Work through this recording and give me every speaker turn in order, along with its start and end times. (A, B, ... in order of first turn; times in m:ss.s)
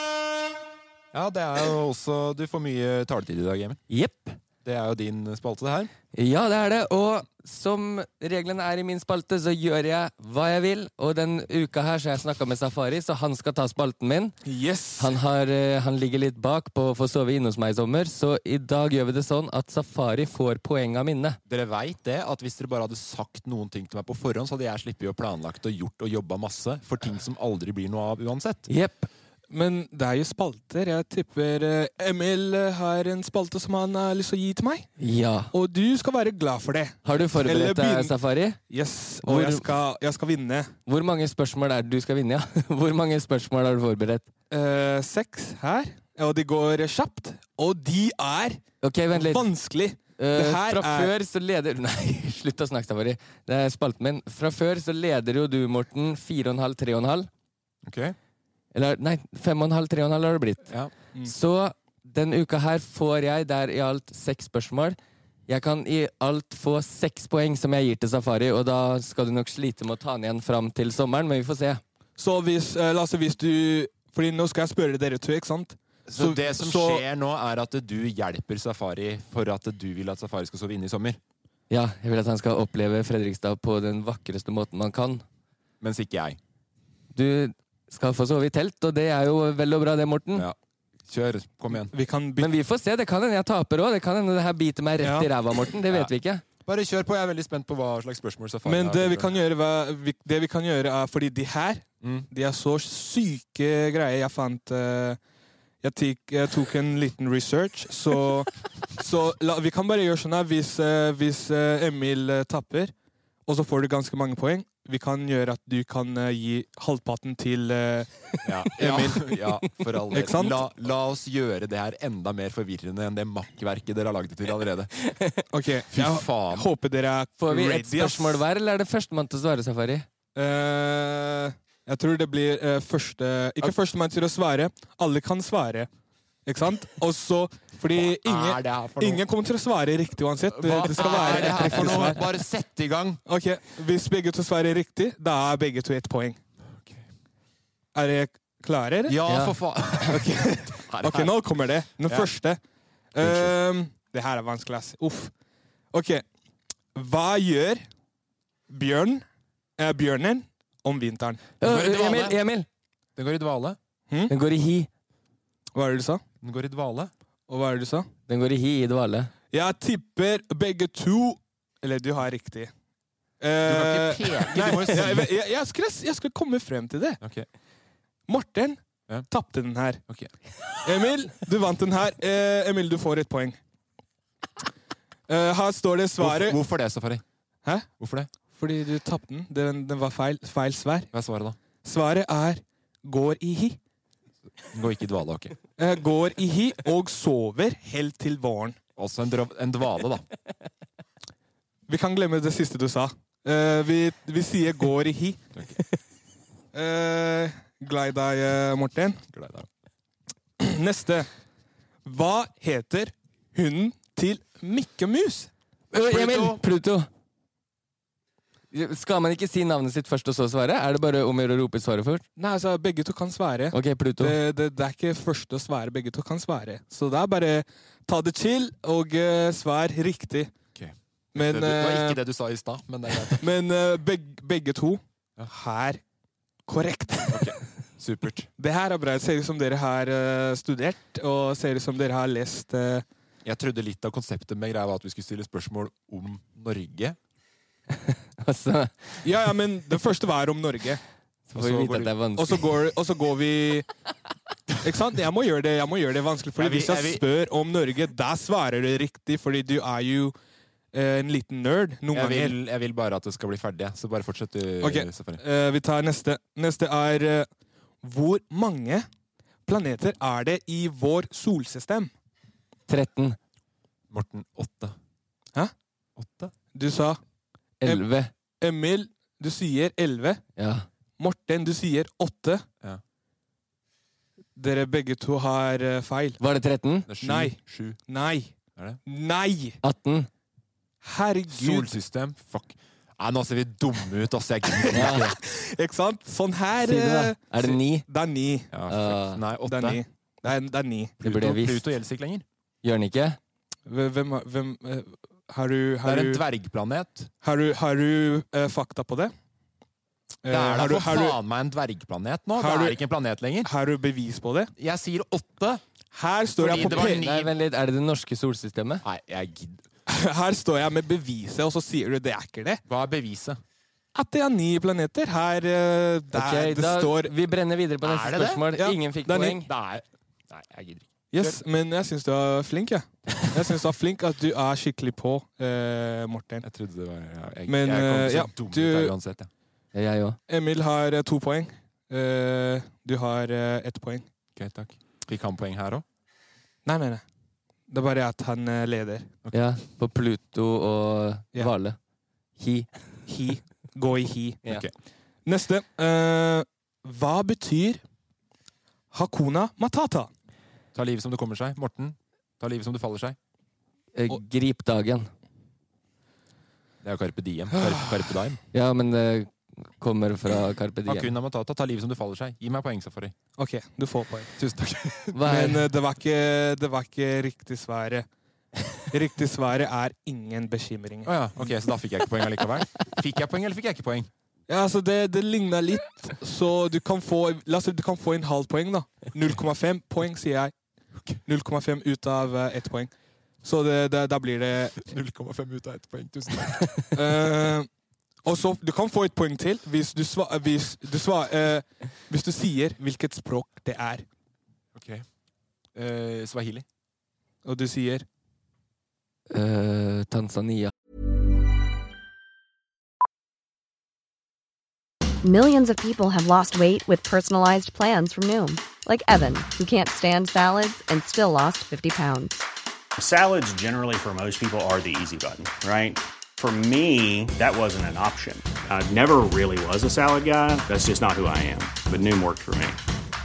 0:01.1-0:03.8 A
0:03.9-0:04.4 B
0:04.6-0:05.9 A
0:06.1-0:14.4 B
0:14.4-0:15.2 C
0:15.0-0:21.4 B
0:21.5-0:28.7 A
0:28.7-0:29.1 B
0:29.5-0:34.9 C
0:35.0-0:35.5 B
0:35.5-0:38.1 C
0:37.0-0:38.6 B
0:38.7-0:40.7 C
0:39.2-0:39.7 B
0:40.9-0:44.3 B
0:44.5-0:51.1 C
0:48.8-0:49.5 B
0:50.2-0:57.3 B
0:57.8-0:58.2 A
0:58.7-1:00.7 B
1:01.2-1:05.0 B
1:05.5-1:11.8 B
1:12.2-1:17.0 C
1:16.1-1:21.2 A
1:21.7-1:25.2 B
1:25.8-1:26.4 A
1:27.1-1:30.5 B
1:31.1-1:31.9 A
1:31.9-1:32.5 C
1:32.4-1:36.4 B
1:35.0-1:35.3 C
1:36.6-1:39.4 A
1:38.7-1:45.2 C
1:42.0-1:42.3 A
1:45.8-1:52.9 C
1:53.5-1:58.1 C
1:58.4-2:04.9 A
1:58.8-1:59.2 C
2:00.1-2:00.6 C
2:05.0-2:05.4 B
2:05.5-2:08.4 C
2:05.9-2:06.7 A
2:07.4-2:10.1 B
2:10.4-2:15.9 C
2:16.5-2:22.2 C
2:17.9-2:19.2 A
2:20.5-2:23.2 A
2:21.0-2:22.1 B
2:23.3-2:26.4 C
2:26.7-2:27.0 A
2:28.0-2:29.2 C
2:29.1-2:31.3 A
2:29.3-2:29.6 B
2:30.1-2:32.6 C
2:32.0-2:32.3 A
2:33.1-2:35.3 C
2:33.2-2:33.5 A
2:35.9-2:36.2 C
2:37.0-2:37.8 C
2:38.7-2:39.2 C
2:39.8-2:41.4 C
2:41.6-2:42.7 B
2:41.6-2:42.4 A
2:43.2-2:43.8 A
2:44.3-2:44.9 B
2:45.8-2:46.2 C
2:46.4-2:47.1 A
2:47.5-2:48.1 C
2:48.3-2:49.3 B
2:49.5-2:52.7 C
2:53.4-2:57.2 C
2:53.6-2:55.3 A
2:57.2-2:57.5 A
2:58.3-3:00.0 C
3:00.8-3:03.6 C
3:05.3-3:06.6 C
3:06.2-3:07.2 A
3:08.0-3:08.3 A
3:08.6-3:11.1 C
3:11.1-3:11.6 A
3:11.8-3:13.8 C
3:14.7-3:15.6 A
3:15.8-3:18.8 C
3:19.0-3:20.2 A
3:21.9-3:25.4 C
3:26.7-3:29.2 C
3:29.3-3:29.7 A
3:30.6-3:31.3 C
3:32.0-3:35.5 C
3:35.9-3:37.1 B
3:36.0-3:36.6 A
3:38.7-3:42.2 B
3:42.4-3:50.5 C
3:43.7-3:44.4 B
3:50.8-3:53.5 A
3:51.3-3:52.2 C
3:53.4-3:56.0 C
3:56.7-3:57.5 C
3:57.3-3:58.5 A
3:58.6-4:03.0 C
4:03.4-4:07.2 A
4:08.1-4:09.2 B
4:09.2-4:11.0 C
4:11.5-4:12.6 B
4:11.6-4:12.1 A
4:12.4-4:13.9 C
4:14.8-4:20.3 C
4:16.6-4:17.2 A
4:20.9-4:22.6 C
4:22.1-4:25.4 A
4:24.8-4:27.5 C
4:28.0-4:29.1 C
4:29.7-4:32.1 C
4:32.9-4:33.4 B
4:34.1-4:35.0 A
4:36.2-4:36.5 A
4:36.7-4:37.2 C
4:37.8-4:38.3 B
4:38.6-4:40.4 C
4:40.6-4:40.9 B
4:41.2-4:42.6 C
4:44.6-4:46.4 C
4:46.4-4:47.1 B
4:47.1-4:48.0 A
4:47.2-4:48.5 C
4:49.1-4:49.8 C
4:49.8-4:50.3 B
4:51.0-4:52.0 C
4:51.5-4:55.4 A
4:54.9-4:55.2 B
4:55.1-4:58.7 C
4:56.8-4:58.0 B
4:58.7-5:00.0 A
4:58.9-4:59.4 B
4:59.7-5:01.2 C
5:01.2-5:02.4 A
5:01.2-5:01.8 B
5:02.8-5:03.4 B
5:03.9-5:06.4 C
5:06.0-5:07.3 A
5:07.4-5:09.3 C
5:10.4-5:11.4 C
5:10.5-5:13.7 A
5:12.6-5:13.0 C
5:13.6-5:14.7 C
5:14.8-5:15.8 A
5:16.1-5:17.2 C
5:16.6-5:17.5 A
5:16.7-5:19.0 B
5:19.0-5:19.8 A
5:20.1-5:22.8 C
5:22.9-5:23.6 A
5:24.2-5:27.3 C
5:26.3-5:29.7 B
5:28.0-5:28.6 A
5:28.7-5:29.6 C
5:29.6-5:31.6 A
5:31.3-5:36.7 C
5:36.6-5:39.5 A
5:37.7-5:39.1 C
5:39.9-5:40.4 B
5:40.5-5:44.3 C
5:44.6-5:46.0 A
5:46.9-5:47.2 C
5:47.9-5:49.3 C
5:49.5-5:52.0 B
5:52.6-5:52.9 B
5:53.3-5:54.6 C
5:54.7-5:54.9 A
5:55.5-5:58.0 C
5:59.1-6:00.3 C
6:00.9-6:03.4 A
6:04.2-6:05.3 B
6:07.0-6:08.6 A
6:08.7-6:11.3 B
6:11.1-6:13.3 A
6:13.6-6:14.5 C
6:14.6-6:15.4 A
6:15.3-6:15.8 B
6:15.5-6:18.3 C
6:19.1-6:21.3 C
6:21.2-6:24.3 A
6:24.7-6:30.7 C
6:31.5-6:35.1 C
6:35.0-6:36.9 A
6:37.1-6:37.9 C
6:38.4-6:44.2 C
6:44.9-6:45.3 A
6:46.0-6:46.8 A
6:47.6-6:48.3 C
6:49.5-6:50.9 B
6:55.4-7:02.6 D
7:03.2-7:13.0 E